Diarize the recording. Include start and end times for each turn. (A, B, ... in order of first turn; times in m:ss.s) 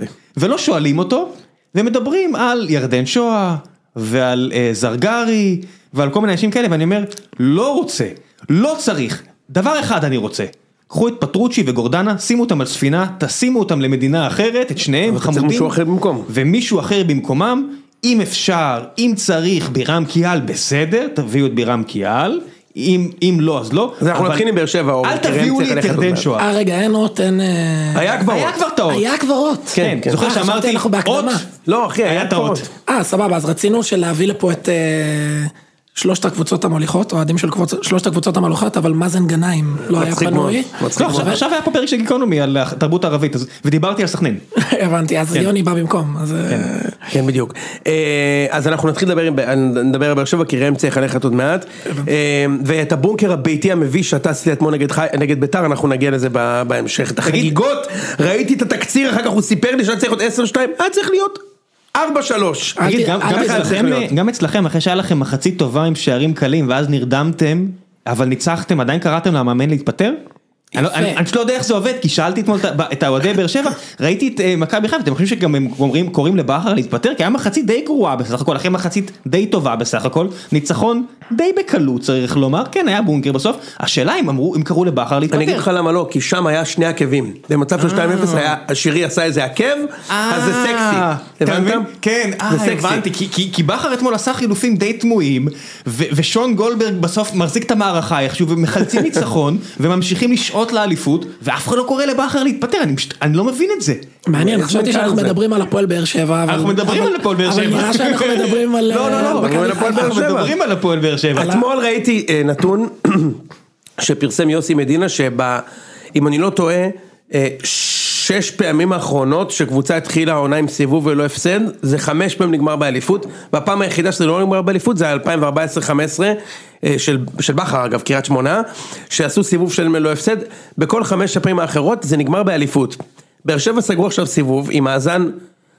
0:00.4-0:15.7 A
0:15.0-0:16.3 B
0:16.3-0:24.4 A
0:24.0-0:26.3 B
0:25.0-0:26.5 A
0:26.4-0:28.1 C
0:27.9-0:28.6 B
0:28.2-0:29.0 A
0:28.9-0:31.4 C
0:29.7-0:30.2 B
0:29.8-0:31.4 A
0:31.7-0:32.6 B
0:32.0-0:32.6 A
0:32.9-0:41.4 C
0:39.9-0:41.4 B
0:41.0-0:44.4 A
0:44.5-0:47.0 C
0:47.0-1:01.4 B
0:57.2-0:57.5 A
1:01.9-1:04.1 B
1:02.8-1:03.8 C
1:02.8-1:10.2 A
1:10.7-1:11.2 C
1:10.8-1:25.6 A
1:25.3-1:31.9 B
1:27.8-1:28.6 A
1:30.1-1:44.0 A
1:32.5-1:33.0 B
1:44.2-1:50.2 C
1:44.4-1:45.4 B
1:46.5-1:51.6 A
1:48.9-1:50.6 B
1:51.3-1:53.4 B
1:51.4-1:51.6 C
1:54.0-2:15.4 B